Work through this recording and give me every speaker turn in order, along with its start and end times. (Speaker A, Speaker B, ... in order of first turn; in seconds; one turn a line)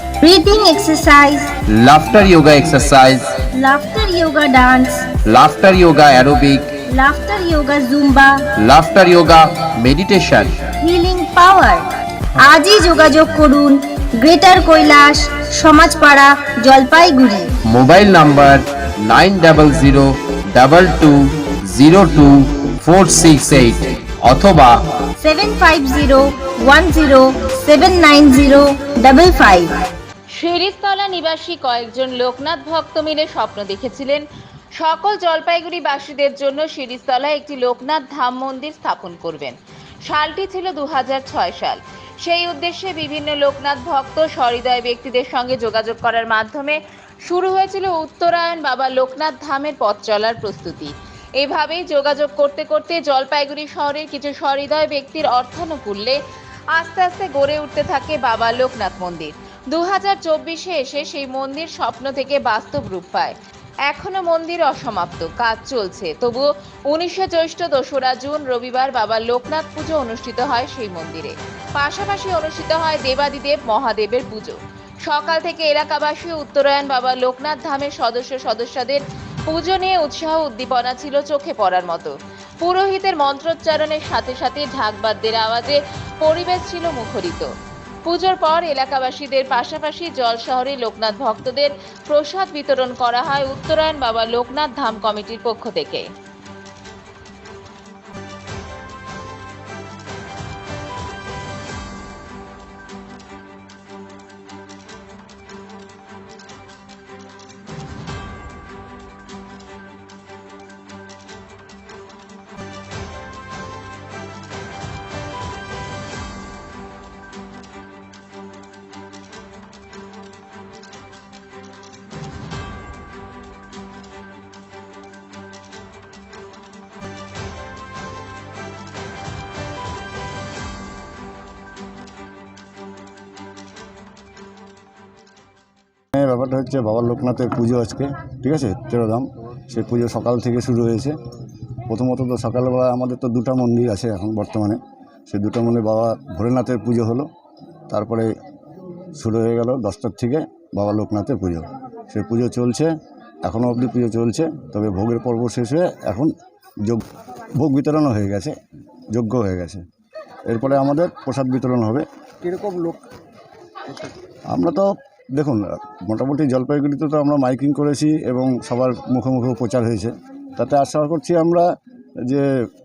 Speaker A: 0.2-1.5
Speaker B: 1.7-3.4
Speaker A: 3.5-5.1
Speaker B: 5.2-6.8
Speaker A: 6.9-8.4
Speaker B: 8.6-10.7
Speaker A: 10.8-11.8
Speaker A: 12.4-17.5
Speaker B: 17.6-24.9
Speaker A: 25.2-29.7
Speaker C: 30.3-34.2
Speaker C: 34.8-39.5
Speaker C: 40.0-56.2
Speaker C: 56.7-63.3
Speaker C: 63.9-87.5
Speaker C: 88.0-96.1
Speaker D: 136.1-141.2
Speaker D: 141.9-147.3
Speaker D: 147.9-148.3
Speaker D: 149.2-152.9
Speaker D: 153.4-156.3
Speaker D: 156.8-158.5
Speaker D: 159.1-159.8
Speaker D: 160.5-163.0
Speaker D: 164.5-171.7